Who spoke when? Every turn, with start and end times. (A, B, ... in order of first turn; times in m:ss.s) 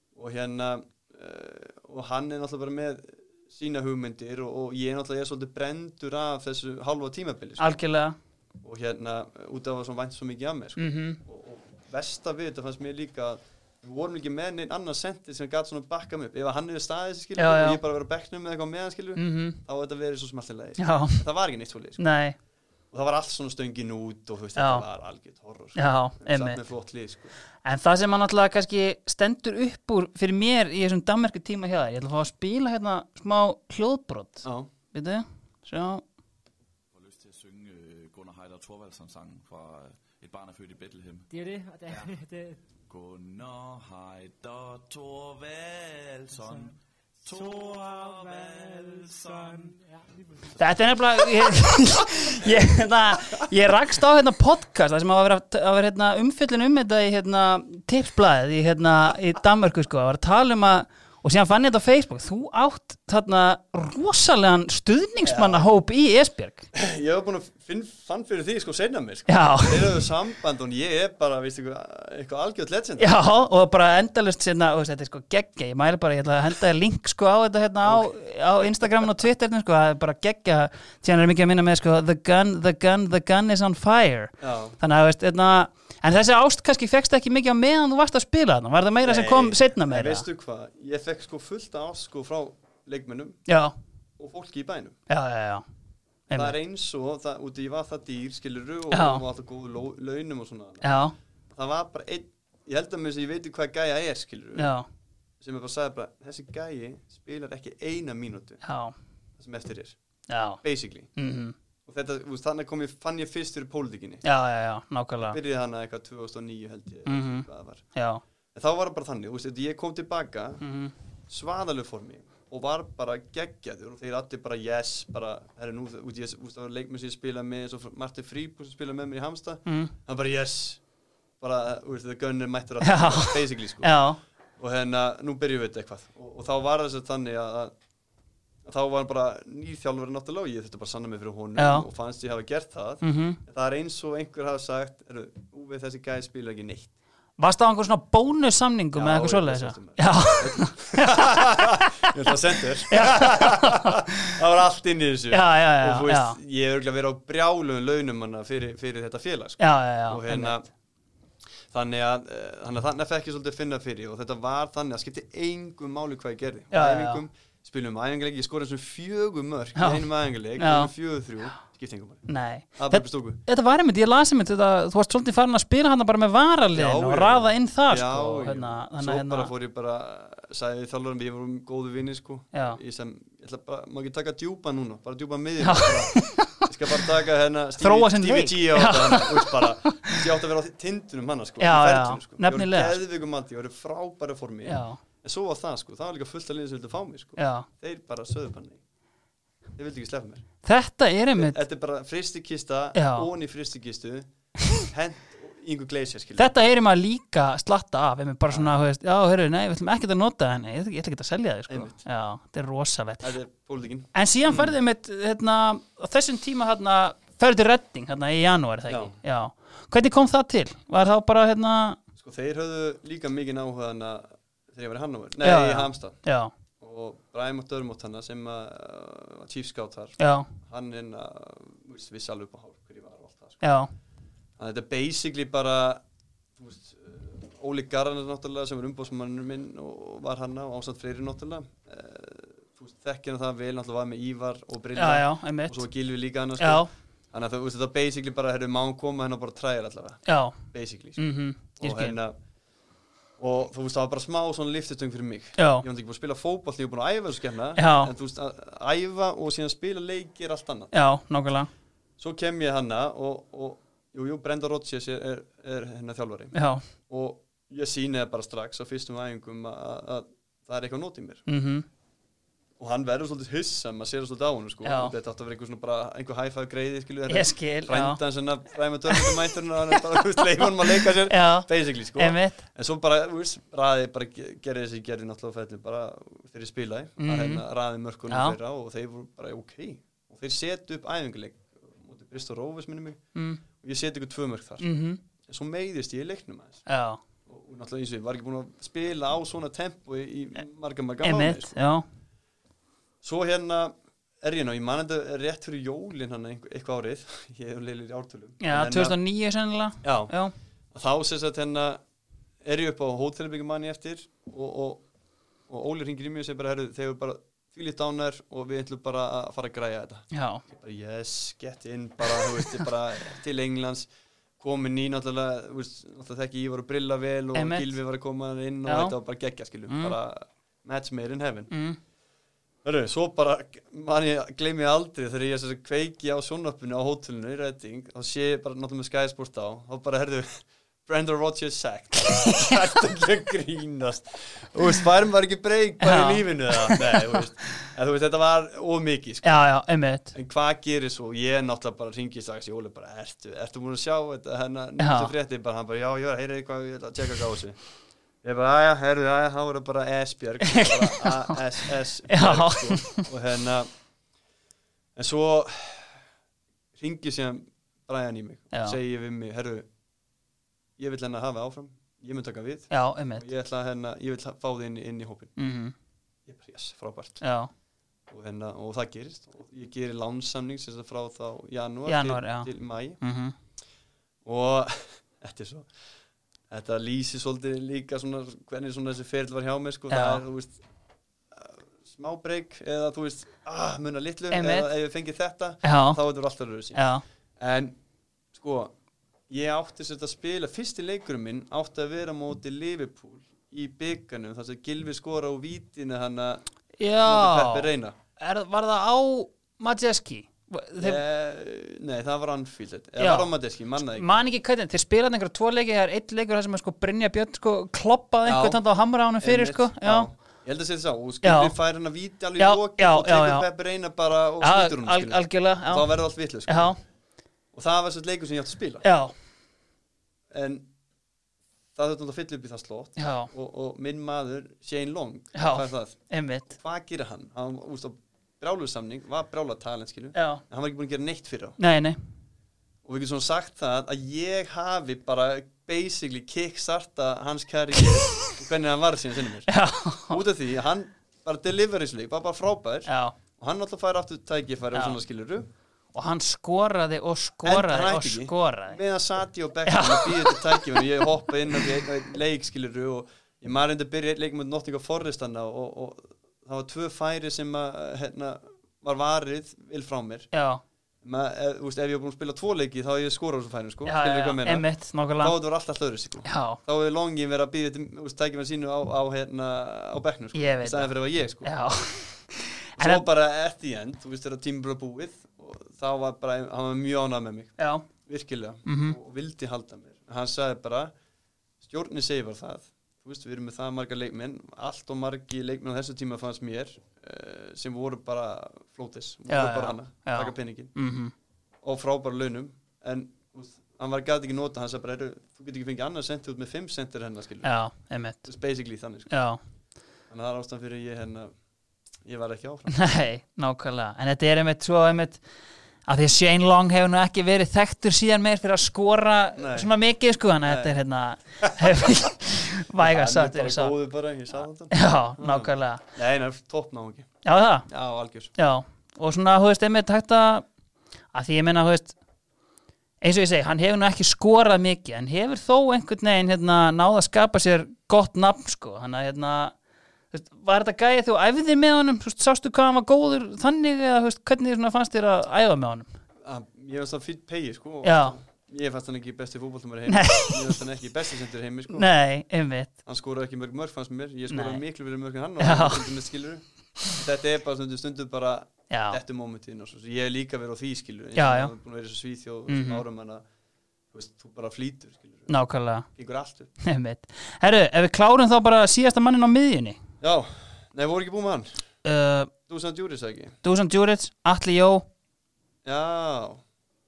0:00.1-0:07.7 A
0:07.6-0:08.2 B
0:08.6-0:22.0 A
0:10.8-0:11.2 B
0:17.4-0:17.8 B
0:19.2-0:19.6 B
0:20.8-0:21.2 B
0:22.0-0:22.4 B
0:22.9-0:27.3 A
0:24.6-0:24.8 B
0:25.7-0:26.6 B
0:27.6-0:36.0 B
0:34.4-0:34.7 A
0:36.9-0:41.3 C
0:41.3-0:42.6 D
0:41.9-0:42.1 C
0:42.9-0:49.8 C
0:46.3-0:46.7 D
0:47.3-0:50.5 D
0:50.6-1:06.7 B
1:05.2-1:05.6 A
1:06.7-1:13.1 A
1:09.3-1:10.0 B
1:13.0-1:30.2 B
1:17.8-1:19.1 A
1:24.4-1:24.8 A
1:29.0-1:33.4 A
1:33.5-1:33.7 B
1:34.2-1:35.0 A
1:35.1-1:35.6 B
1:36.3-1:36.5 B
1:36.3-1:40.9 A
1:38.9-1:39.2 B
1:40.8-1:41.1 B
1:41.5-1:44.7 A
1:44.6-1:44.8 B
1:45.4-1:48.6 A
1:48.6-1:48.9 B
1:49.4-1:50.0 A
1:50.3-1:50.6 B
1:50.6-1:51.1 A
1:51.2-1:51.5 B
1:51.8-1:54.2 A
1:54.2-1:55.4 B
1:55.2-1:57.8 A
1:57.1-1:58.2 B
1:58.5-2:00.6 A
2:00.6-2:00.9 B
2:01.3-2:10.8 A
2:09.6-2:09.9 B
2:11.4-2:14.0 A
2:12.8-2:14.2 B
2:14.6-2:17.7 A
2:18.6-2:26.9 A
2:21.6-2:21.8 B
2:23.0-2:23.4 B
2:27.4-2:31.9 B
2:28.9-2:40.7 A
2:32.9-2:34.0 B
2:35.3-2:36.4 B
2:39.6-2:40.5 B
2:41.7-2:52.2 A
2:46.7-2:47.2 B
2:49.8-2:50.0 B
2:50.6-2:50.9 B
2:52.3-2:59.5 B
2:52.8-2:53.4 A
2:56.7-3:18.8 A
3:02.5-3:02.8 B
3:05.6-3:06.7 B
3:07.8-3:10.2 B
3:11.6-3:13.0 B
3:14.6-3:15.0 B
3:17.4-3:17.7 B
3:19.8-3:20.4 A
3:20.6-3:21.6 B
3:21.3-3:26.5 A
3:22.9-3:23.3 B
3:26.4-3:33.3 B
3:28.5-3:28.8 A
3:31.7-3:32.0 A
3:33.2-3:34.8 A
3:34.1-3:42.0 B
3:38.9-3:39.1 A
3:42.2-3:46.2 A
3:45.4-3:46.5 B
3:46.8-3:53.6 A
3:50.2-3:50.5 B
3:53.6-3:53.9 B
3:54.6-3:56.0 A
3:56.6-4:11.2 A
4:04.9-4:05.8 B
4:06.6-4:06.9 B
4:10.2-4:10.6 B
4:11.2-4:12.2 B
4:11.8-4:12.3 A
4:13.4-4:20.9 A
4:15.6-4:15.8 B
4:17.8-4:18.1 B
4:20.9-4:21.7 B
4:22.2-4:26.5 A
4:26.5-4:26.8 B
4:27.1-4:31.4 A
4:31.5-4:31.8 B
4:32.8-4:53.2 A
4:34.8-4:35.1 B
4:37.3-4:38.2 B
4:41.2-4:42.6 B
4:47.2-4:47.6 B
4:48.3-4:48.6 B
4:53.3-4:53.6 B
4:53.8-4:54.8 A
4:54.8-4:55.2 B
4:55.5-4:56.8 A
4:56.9-4:57.2 B
4:57.4-5:01.7 A
5:01.2-5:02.0 B
5:03.2-5:09.2 A
5:08.6-5:10.5 B
5:10.0-5:10.3 A
5:10.9-5:12.0 A
5:12.6-5:15.0 A
5:15.7-5:24.1 A
5:20.3-5:20.6 B
5:24.6-5:31.7 A
5:27.5-5:27.9 B
5:28.8-5:29.1 B
5:29.9-5:30.2 B
5:31.7-5:32.0 B
5:32.8-5:49.6 A
5:46.0-5:47.4 B
5:49.4-5:50.3 B
5:50.3-5:57.8 A
5:55.0-5:55.3 B
5:58.4-6:03.9 A
6:00.6-6:01.6 B
6:02.3-6:03.2 B
6:05.2-6:06.2 A
6:06.9-6:09.9 A
6:08.7-6:09.0 B
6:11.0-6:15.5 A
6:12.9-6:13.5 B
6:15.6-6:15.9 B
6:16.4-6:17.4 A
6:17.4-6:17.7 B
6:18.3-6:23.2 A
6:22.1-6:23.5 B
6:24.4-6:25.9 A
6:26.7-6:30.8 A
6:30.1-6:30.4 B
6:31.5-6:37.0 A
6:34.5-6:34.9 B
6:35.8-6:36.2 B
6:36.9-6:37.2 B
6:37.6-6:38.0 A
6:38.5-6:38.9 A
6:39.5-6:46.6 A
6:47.0-6:51.2 B
6:47.2-6:48.2 A
6:51.0-6:54.3 A
6:53.2-7:00.3 B
6:58.4-6:58.8 A
6:59.4-7:06.9 A
7:01.4-7:01.7 B
7:02.6-7:03.6 B
7:04.6-7:06.1 B
7:06.7-7:07.0 B
7:07.7-7:09.0 A
7:09.0-7:09.3 B
7:10.5-7:10.9 A
7:11.9-7:16.2 A
7:13.2-7:13.5 B
7:15.5-7:16.7 B
7:16.7-7:21.8 A
7:20.3-7:20.6 B
7:21.8-7:22.2 B
7:23.0-7:29.7 A
7:29.7-7:30.4 B
7:30.2-7:35.7 A
7:33.0-7:33.4 B
7:36.1-7:39.0 B
7:37.6-7:50.5 A
7:39.8-7:41.2 B
7:50.5-7:50.8 B
7:51.2-7:54.8 A
7:54.0-7:55.6 B
7:55.4-8:01.7 A
7:56.4-7:56.8 B
8:00.5-8:03.2 B
8:03.0-8:11.1 A
8:07.8-8:08.0 B
8:08.8-8:09.2 B
8:11.8-8:20.9 A
8:19.5-8:21.3 B
8:21.8-8:27.7 A
8:27.6-8:28.4 B
8:28.4-8:29.3 A
8:29.3-8:29.6 B
8:30.3-8:31.5 A
8:32.2-8:33.0 A
8:32.9-8:35.4 B
8:36.0-8:43.9 B
8:39.6-8:39.9 A
8:40.6-8:41.0 A
8:41.6-8:42.2 A
8:43.0-8:47.3 A
8:44.9-8:46.0 B
8:47.4-8:47.9 B
8:47.9-8:48.5 A
8:48.6-8:50.6 B
8:51.3-8:52.1 B
8:53.2-8:59.7 B
9:00.3-9:06.1 B
9:06.4-9:12.1 A
9:08.0-9:08.4 B
9:10.1-9:10.8 B
9:11.9-9:12.9 B
9:13.0-9:23.4 A
9:14.5-9:14.8 B
9:15.6-9:16.1 B
9:18.9-9:19.2 B
9:21.4-9:21.7 B
9:22.7-9:23.0 B
9:24.1-9:25.5 A
9:25.5-9:26.0 B
9:26.1-9:26.7 A
9:26.8-9:30.0 B
9:30.2-9:31.8 A
9:32.0-9:32.5 B
9:32.7-9:33.6 A
9:33.6-9:35.0 B
9:35.8-9:36.6 A